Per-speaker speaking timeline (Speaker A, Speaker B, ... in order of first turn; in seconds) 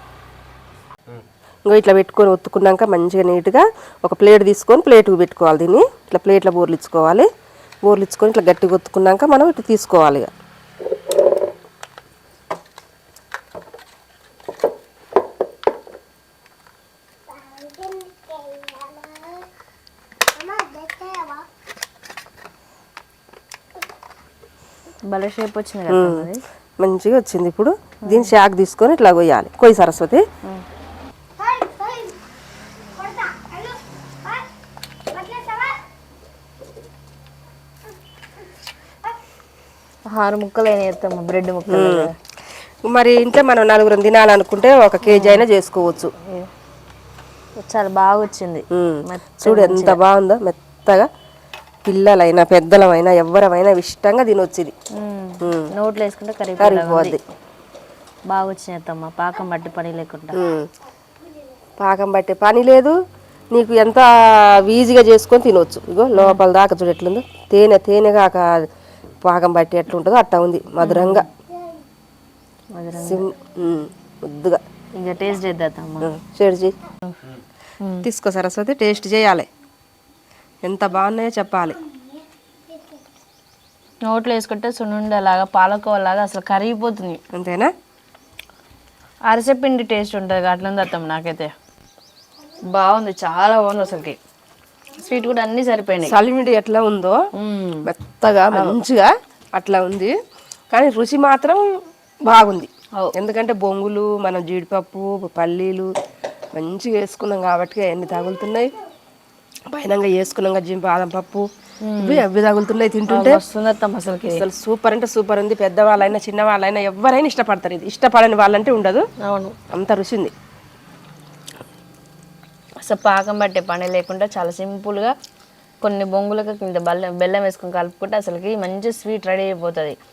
Speaker A: 1.7-7.3, 7.8-10.3, 25.9-26.3, 26.8-30.2, 41.7-42.1, 42.9-46.1, 48.7-51.1, 51.9-54.7, 55.4-55.7, 56.6-57.2, 60.3-60.7, 61.8-63.0, 63.5-68.7, 69.2-71.3, 73.0-74.6, 76.0-76.8, 78.0-79.5, 80.6-81.8, 87.3-87.7, 96.0-97.2, 97.8-100.1, 100.7-101.7, 102.3-105.9, 106.5-108.7, 109.7-111.5, 112.0-113.4, 114.3-119.1, 119.7-120.3
Speaker B: 25.1-26.4, 28.1-28.3, 40.1-42.1, 45.0-45.5, 46.2-46.5, 47.6-50.0, 55.0-57.2, 58.3-60.4, 66.2-66.4, 70.8-71.3, 72.7-73.3, 75.0-76.1, 84.0-87.2, 89.3-91.5, 92.7-94.2, 95.0-96.2, 97.4-97.9, 98.5-98.8, 111.8-112.2, 113.1-114.5, 119.2-119.6, 122.8-125.2, 125.8-130.0